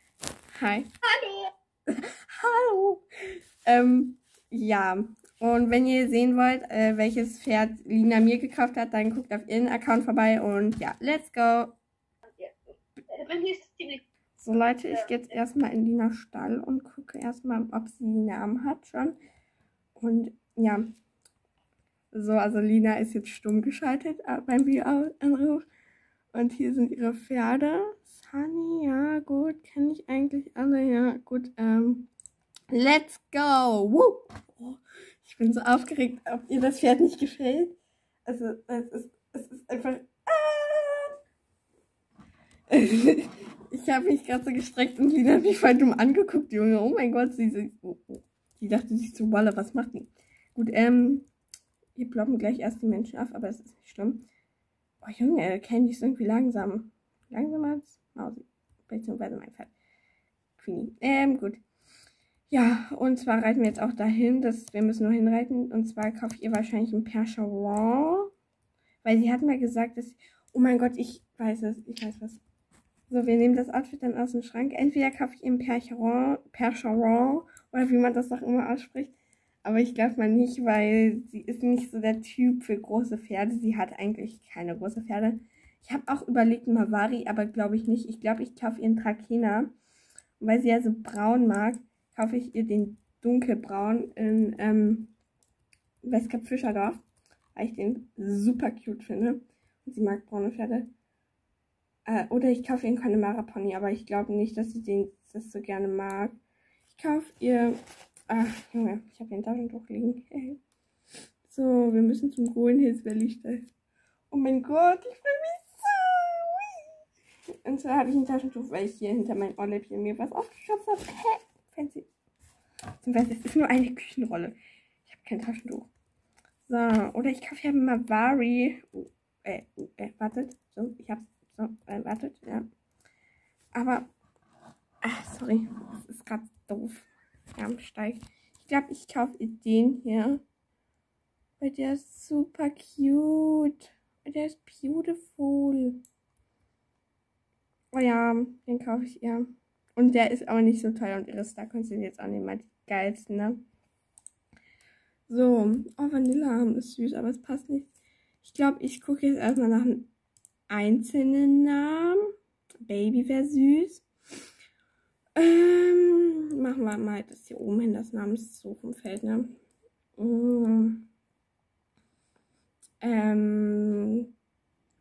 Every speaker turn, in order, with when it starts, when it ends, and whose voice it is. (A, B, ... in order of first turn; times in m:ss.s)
0:00.5-0:00.9 A
0:01.0-0:01.5 B
0:01.9-0:03.0 A
0:03.6-0:11.8 A
0:12.3-0:14.0 B
0:14.4-0:19.2 A
0:14.6-0:15.2 B
0:19.9-0:20.8 A
0:22.1-0:25.6 A
0:26.3-0:32.1 A
0:32.7-0:41.1 A
0:42.7-0:51.3 A
0:52.0-0:54.2 A
0:55.0-0:59.7 A
1:00.6-1:01.6 A
1:02.5-1:08.3 A
1:09.0-1:12.4 A
1:13.1-1:29.7 A
1:30.4-1:35.1 A
1:36.0-1:37.0 A
1:37.5-1:40.9 A
1:42.0-1:46.3 A
1:46.9-1:47.8 A
1:48.3-1:50.6 A
1:51.4-1:53.6 A
1:54.3-1:56.8 A
1:57.6-2:02.1 A
2:03.0-2:05.9 A
2:06.7-2:12.6 A
2:13.7-2:14.1 A
2:15.0-2:20.4 A
2:21.6-2:26.0 A
2:27.9-2:33.6 A
2:35.3-2:40.1 A
2:40.7-2:42.3 A
2:42.8-2:44.0 A
2:45.4-2:49.5 A
2:50.2-2:51.1 A
2:53.0-2:54.3 A